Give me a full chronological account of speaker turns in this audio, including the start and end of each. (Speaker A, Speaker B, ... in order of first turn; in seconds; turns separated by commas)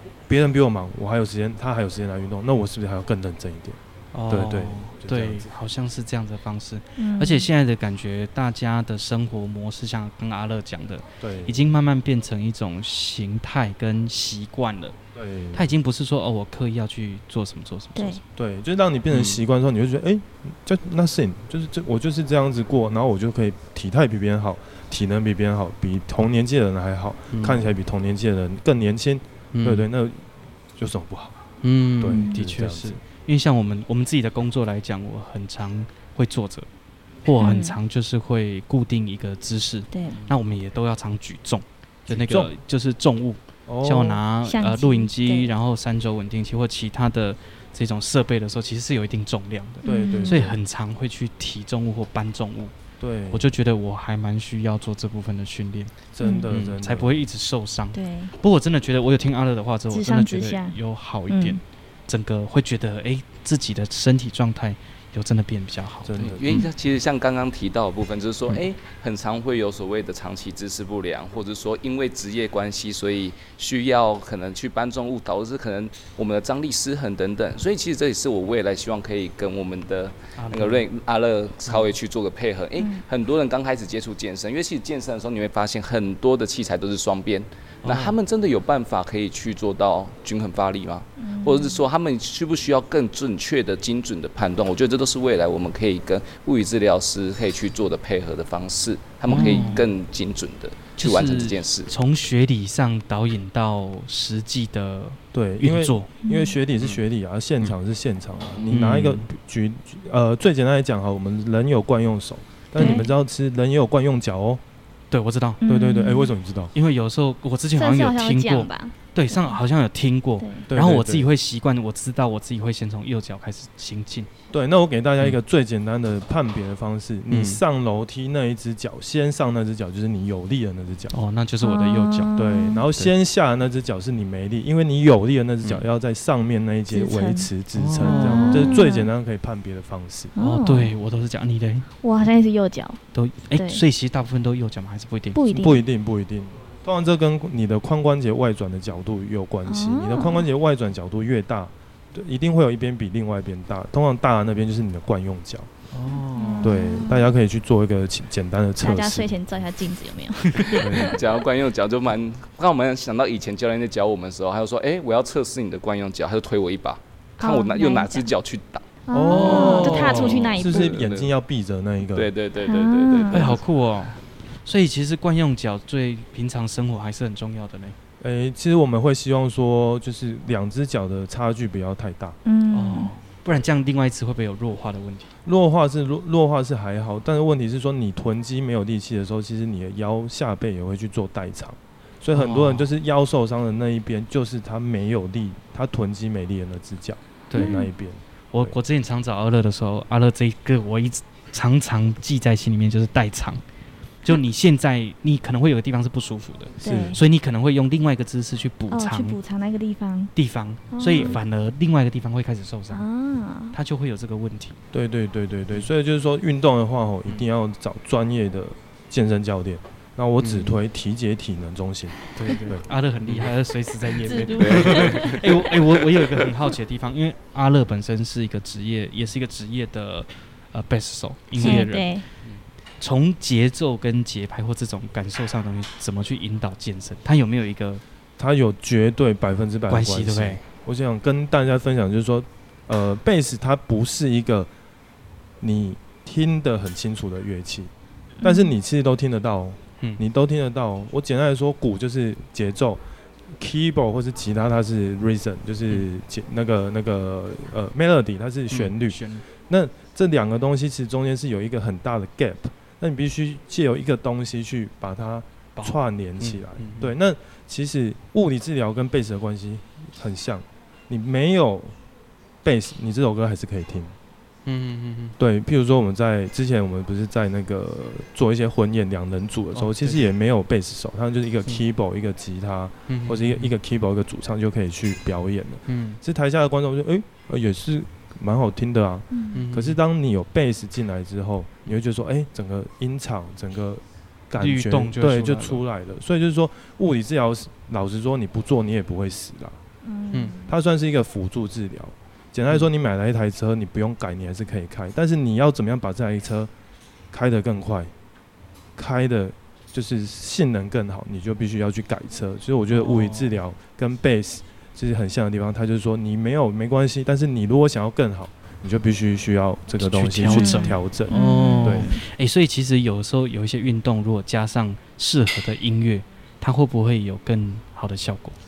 Speaker A: 0.3-5.5, Speaker B: 4.1-15.0, Speaker C: 7.0-7.5, Speaker A: 11.2-11.6, Speaker A: 15.1-15.7, Speaker B: 15.5-18.2, Speaker C: 17.9-18.2, Speaker A: 18.3-31.4, Speaker B: 19.1-19.4, Speaker B: 27.3-27.6, Speaker B: 29.5-29.9, Speaker B: 31.6-36.7, Speaker A: 32.0-33.0, Speaker C: 32.1-32.4, Speaker B: 37.2-52.7, Speaker C: 37.4-37.8, Speaker C: 39.9-40.2, Speaker A: 42.1-42.5, Speaker A: 43.7-44.2, Speaker C: 44.4-45.5, Speaker A: 49.8-50.5, Speaker C: 49.8-50.6, Speaker A: 53.0-53.5, Speaker B: 53.3-55.9, Speaker A: 56.1-57.2, Speaker C: 56.2-56.5, Speaker B: 56.5-66.6, Speaker C: 57.9-58.3, Speaker C: 59.9-60.8, Speaker C: 61.3-61.6, Speaker A: 66.0-66.6, Speaker D: 66.2-101.9, Speaker B: 80.3-80.8, Speaker C: 82.8-83.0, Speaker B: 87.8-88.2, Speaker C: 91.2-91.8, Speaker B: 99.3-99.8, Speaker C: 99.3-99.8, Speaker B: 101.0-106.1, Speaker A: 105.3-114.6, Speaker C: 106.2-106.6, Speaker B: 108.7-109.3, Speaker B: 112.8-113.1, Speaker C: 112.8-113.1, Speaker B: 115.1-115.6, Speaker C: 115.6-116.3, Speaker A: 115.6-116.7, Speaker B: 116.7-124.3, Speaker C: 117.8-119.6, Speaker C: 120.4-120.7, Speaker A: 120.7-121.3, Speaker A: 124.5-131.1, Speaker B: 127.3-127.6, Speaker B: 131.1-132.4, Speaker C: 131.6-132.8, Speaker A: 132.3-140.3, Speaker C: 136.9-137.5, Speaker B: 137.7-138.9, Speaker C: 138.0-139.1, Speaker C: 140.3-140.9, Speaker B: 140.4-141.9, Speaker C: 142.0-143.8, Speaker B: 143.1-145.4, Speaker C: 145.3-145.8, Speaker A: 145.5-155.7, Speaker C: 149.7-150.4, Speaker B: 155.9-156.8, Speaker C: 156.1-157.3, Speaker A: 156.6-159.3, Speaker C: 158.8-161.2, Speaker B: 160.6-160.8, Speaker A: 160.7-161.2, Speaker D: 160.9-168.9, Speaker C: 167.4-168.2, Speaker C: 169.1-170.9, Speaker A: 169.1-172.3, Speaker B: 169.2-170.4, Speaker D: 169.6-171.3, Speaker D: 172.1-173.6, Speaker C: 172.6-173.5, Speaker B: 173.3-178.0, Speaker A: 178.2-182.4, Speaker C: 182.4-183.1, Speaker B: 182.7-185.3, Speaker A: 185.4-198.8, Speaker B: 192.3-192.9, Speaker B: 197.5-197.8, Speaker C: 197.6-197.9, Speaker B: 198.5-203.6, Speaker B: 204.2-209.4, Speaker A: 206.8-207.2, Speaker C: 206.8-207.2, Speaker C: 208.9-210.3, Speaker B: 210.3-213.1, Speaker C: 210.9-211.4, Speaker A: 211.1-211.4, Speaker C: 212.9-213.8, Speaker B: 213.7-214.8, Speaker A: 214.9-223.4, Speaker B: 220.4-220.8, Speaker B: 222.3-232.2, Speaker C: 224.2-225.5, Speaker D: 224.6-225.4, Speaker C: 231.6-232.2, Speaker B: 233.0-238.0, Speaker A: 238.4-244.7, Speaker B: 239.9-240.6, Speaker A: 245.6-247.9, Speaker C: 248.4-248.7, Speaker A: 248.4-253.0, Speaker A: 253.5-272.0, Speaker B: 258.7-259.4, Speaker B: 265.8-267.1, Speaker A: 272.6-274.1, Speaker B: 274.6-275.4, Speaker A: 275.4-299.8, Speaker B: 279.7-280.2, Speaker B: 283.1-283.7, Speaker B: 285.9-286.2, Speaker C: 289.3-289.6, Speaker B: 289.5-290.0, Speaker B: 294.6-295.8, Speaker C: 300.0-300.8, Speaker A: 300.6-306.7, Speaker A: 307.3-308.1, Speaker A: 308.9-322.1, Speaker B: 312.9-313.6, Speaker B: 320.0-328.6, Speaker C: 320.4-322.2